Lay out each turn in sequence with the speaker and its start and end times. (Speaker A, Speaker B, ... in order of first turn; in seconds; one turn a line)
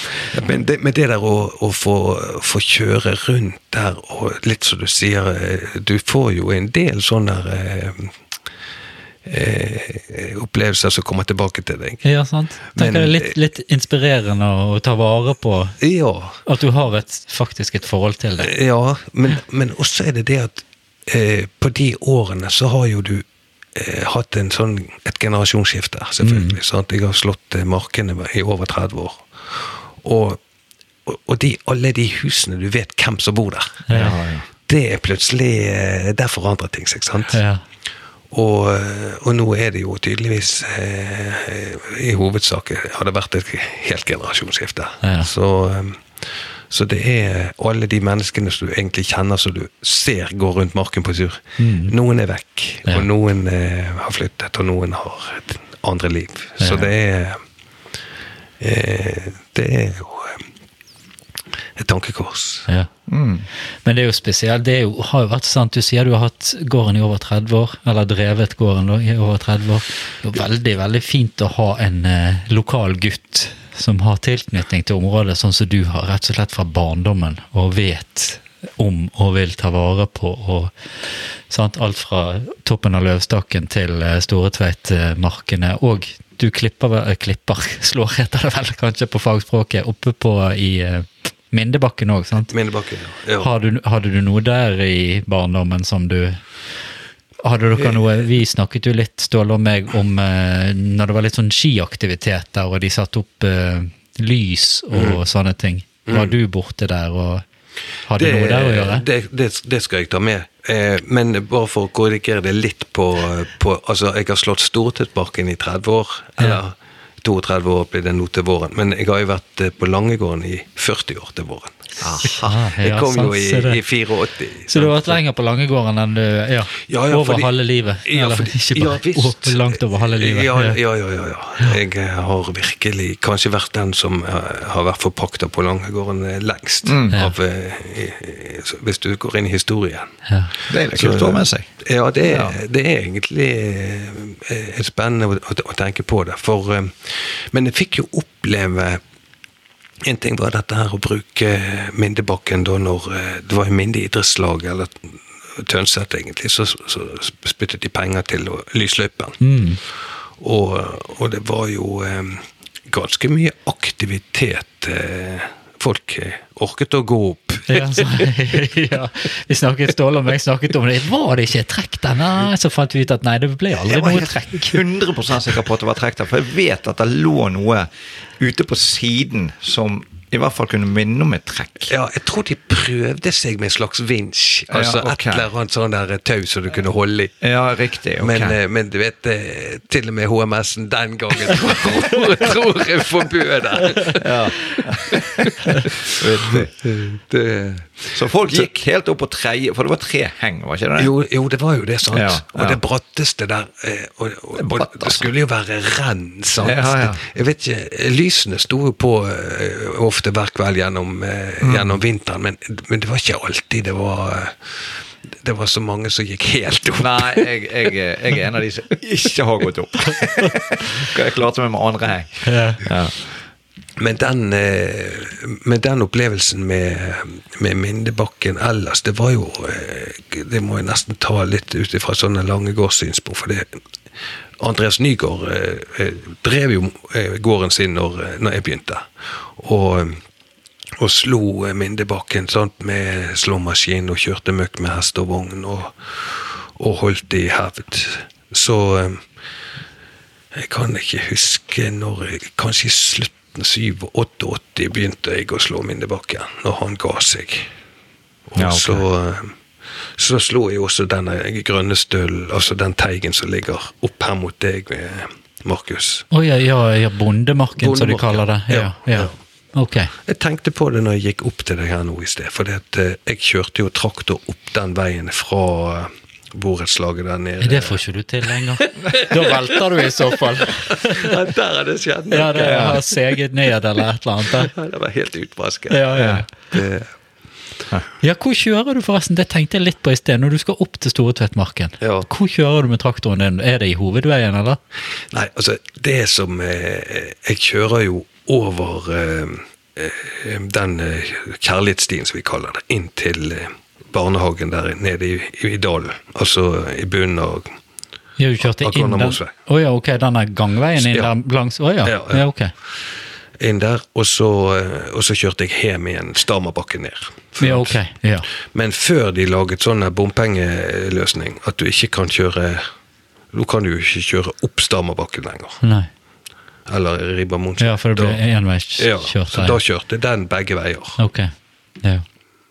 Speaker A: 0.1-8.1
Speaker A: 9.2-12.1
Speaker B: 12.0-15.8
Speaker A: 12.7-13.3
Speaker A: 15.8-16.4
Speaker B: 16.4-18.5
Speaker A: 18.4-30.4
Speaker B: 26.2-26.6
Speaker A: 31.1-34.0
Speaker B: 33.9-34.2
Speaker C: 33.9-34.4
Speaker A: 34.6-37.4
Speaker B: 37.3-37.6
Speaker A: 38.3-57.4
Speaker B: 45.0-45.3
Speaker B: 51.6-51.9
Speaker B: 56.6-56.9
Speaker A: 58.6-60.4
Speaker A: 61.8-62.7
Speaker C: 63.1-63.5
Speaker B: 63.8-92.5
Speaker A: 92.5-93.5
Speaker B: 93.4-96.4
Speaker B: 97.4-107.4
Speaker A: 97.8-98.1
Speaker A: 104.9-105.2
Speaker A: 106.1-106.3
Speaker B: 108.1-109.0
Speaker A: 108.2-125.2
Speaker C: 122.0-122.5
Speaker B: 122.3-123.8
Speaker B: 124.7-130.8
Speaker A: 126.9-127.5
Speaker A: 128.0-140.2
Speaker C: 136.8-137.1
Speaker B: 140.2-140.5
Speaker C: 140.7-141.7
Speaker A: 140.8-149.0
Speaker C: 142.2-142.6
Speaker A: 150.0-159.4
Speaker B: 159.4-159.8
Speaker A: 160.4-168.3
Speaker B: 167.7-174.8
Speaker C: 173.8-181.9
Speaker A: 181.9-187.4
Speaker C: 184.7-185.5
Speaker C: 187.4-188.6
Speaker A: 188.2-198.7
Speaker C: 194.2-196.7
Speaker C: 198.1-201.1
Speaker A: 201.0-217.5
Speaker C: 202.1-202.8
Speaker C: 204.6-205.3
Speaker C: 206.6-207.2
Speaker C: 211.6-212.0
Speaker C: 217.0-223.2
Speaker B: 222.4-222.8
Speaker A: 224.0-233.7
Speaker A: 234.6-240.2
Speaker A: 241.0-249.2
Speaker A: 250.5-257.7
Speaker A: 258.5-259.5
Speaker C: 258.6-259.0
Speaker A: 260.2-266.3
Speaker B: 266.3-270.1
Speaker A: 267.8-269.3
Speaker A: 270.2-278.0
Speaker B: 277.6-281.3
Speaker A: 278.6-279.7
Speaker A: 280.9-283.0
Speaker B: 282.3-284.7
Speaker C: 282.6-283.0
Speaker A: 284.6-287.1
Speaker B: 285.9-286.5
Speaker C: 286.2-286.4
Speaker B: 288.2-294.8
Speaker A: 292.0-292.3
Speaker A: 295.3-307.7
Speaker B: 308.4-312.7
Speaker A: 308.6-309.5
Speaker A: 311.0-311.3
Speaker A: 312.0-312.5
Speaker A: 313.6-318.0
Speaker B: 317.6-318.5
Speaker A: 318.7-322.8
Speaker A: 323.5-325.8
Speaker B: 325.8-326.1
Speaker A: 326.9-328.4
Speaker B: 327.8-329.8
Speaker A: 329.0-331.2
Speaker B: 331.2-331.5